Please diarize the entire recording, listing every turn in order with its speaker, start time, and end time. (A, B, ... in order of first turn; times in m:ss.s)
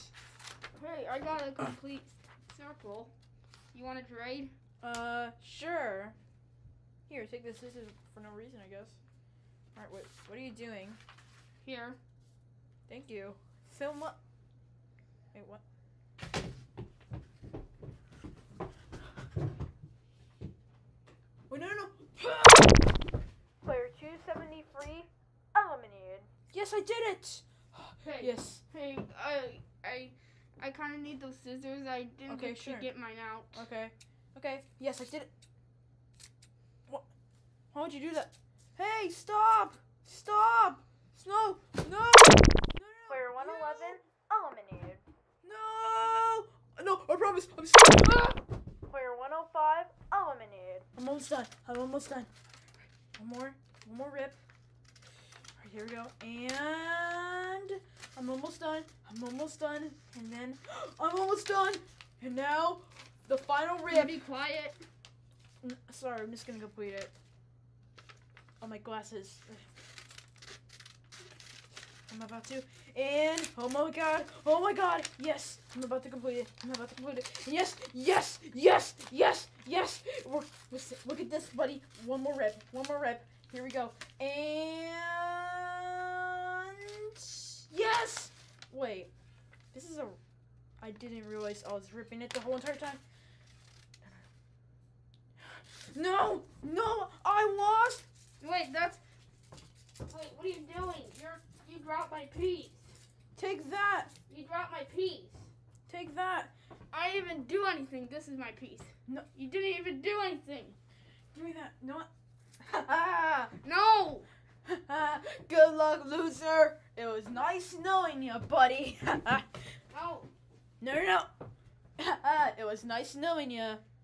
0:00.8-0:03.1 A
0:03.7-0:04.5 A
0:04.8-0:06.2 B
0:07.1-0:09.0 B
0:09.8-0:11.0 B
0:11.6-0:12.0 A
0:12.9-0:14.2 B
0:15.3-0:15.6 B
0:21.5-0:22.8 B
0:23.6-0:26.3 C
0:26.5-0:28.6 B
0:28.0-0:33.6 A
0:32.3-0:32.9 B
0:33.5-0:35.3 B
0:37.7-0:44.0 B
0:43.1-0:45.0 C
0:45.4-0:48.4 B
0:48.9-0:50.9 C
0:51.0-0:52.3 B
0:53.2-0:54.4 B
0:55.6-1:04.2 B
1:03.9-1:04.8 A
1:05.6-1:07.1 B
1:08.6-1:09.7 B
1:12.1-1:29.1 B
1:29.7-1:30.2 B
1:30.8-1:33.0 B
1:35.5-1:38.1 B
1:38.4-1:39.0 A
1:40.1-1:42.9 A
1:43.4-1:44.1 B
1:44.3-1:45.5 A
1:45.9-1:46.5 B
1:46.9-1:50.8 A
1:51.3-1:52.1 B
1:52.6-1:53.5 B
1:53.6-1:54.3 A
1:54.6-1:59.5 B
1:59.9-2:00.3 A
2:00.8-2:01.3 B
2:02.0-2:03.8 B